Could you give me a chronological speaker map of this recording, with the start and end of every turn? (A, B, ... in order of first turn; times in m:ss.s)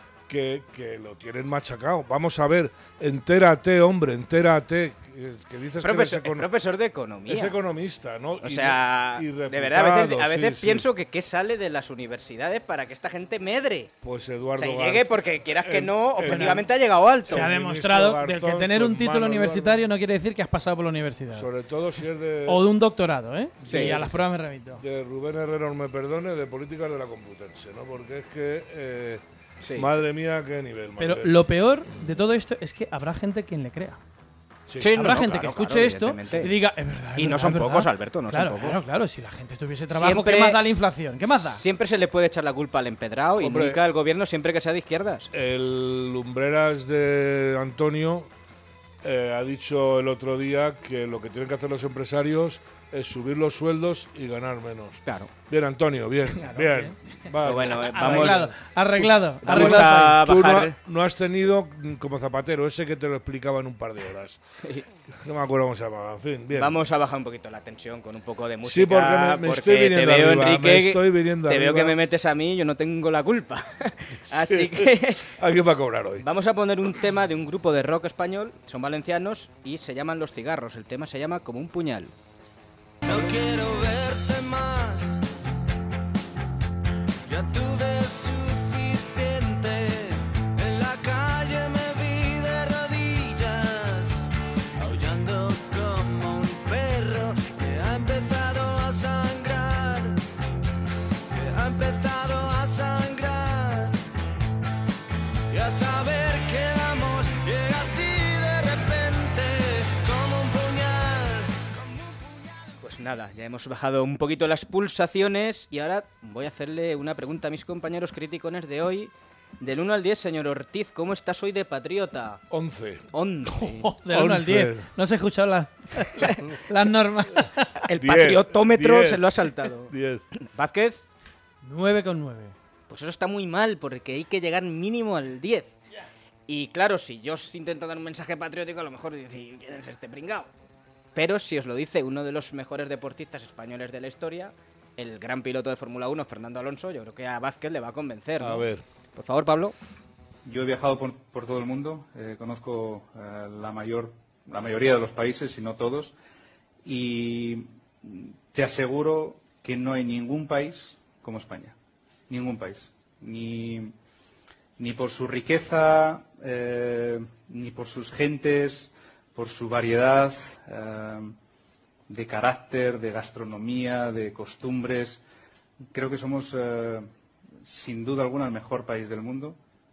0:00.3-0:06.5 A
0:05.8-0:07.6 B
0:07.3-0:10.8 A
0:08.4-0:13.9 B
0:14.0-0:16.7 A
0:14.6-0:17.5 B
0:16.2-0:16.6 C
0:17.2-0:19.8 A
0:17.2-0:21.5 C
0:21.3-0:22.6 A
0:22.4-0:24.8 C
0:23.6-0:29.2 A
0:23.7-0:24.0 B
0:29.6-0:29.9 B
0:29.7-0:31.4 A
0:31.0-0:34.0 C
0:34.7-0:35.0 A
0:34.8-0:41.6 C
0:34.8-0:36.5 B
0:37.2-0:38.8 B
0:39.9-0:40.6 B
0:41.3-0:45.3 B
0:43.4-0:43.8 A
0:45.3-0:48.3 A
0:49.0-1:04.4 A
0:55.0-0:55.3 B
0:56.4-0:57.0 C
0:57.4-0:58.5 B
0:57.8-1:00.2 C
0:59.4-1:00.7 B
1:05.2-1:06.8 A
1:06.5-1:15.3 B
1:08.6-1:12.0 A
1:14.3-1:16.3 A
1:16.2-1:22.1 B
1:23.0-1:25.2 D
1:23.0-1:23.5 B
1:27.3-1:40.2 D
1:41.3-1:44.0 D
1:45.5-1:52.8 D
1:52.8-2:02.4 B
2:02.5-2:03.1 A
2:03.1-2:03.9 B
2:03.5-2:07.8 C
2:04.1-2:04.9 A
2:07.9-2:11.0 B
2:08.0-2:10.2 A
2:11.6-2:12.5 C
2:12.9-2:15.7 B
2:16.5-2:20.5 B
2:21.1-2:29.8 B
2:28.4-2:28.8 A
2:30.4-2:36.2 E
2:36.8-2:41.8 E
2:42.3-2:43.9 E
2:44.8-2:51.4 E
2:52.1-2:55.2 E
2:55.9-2:59.6 E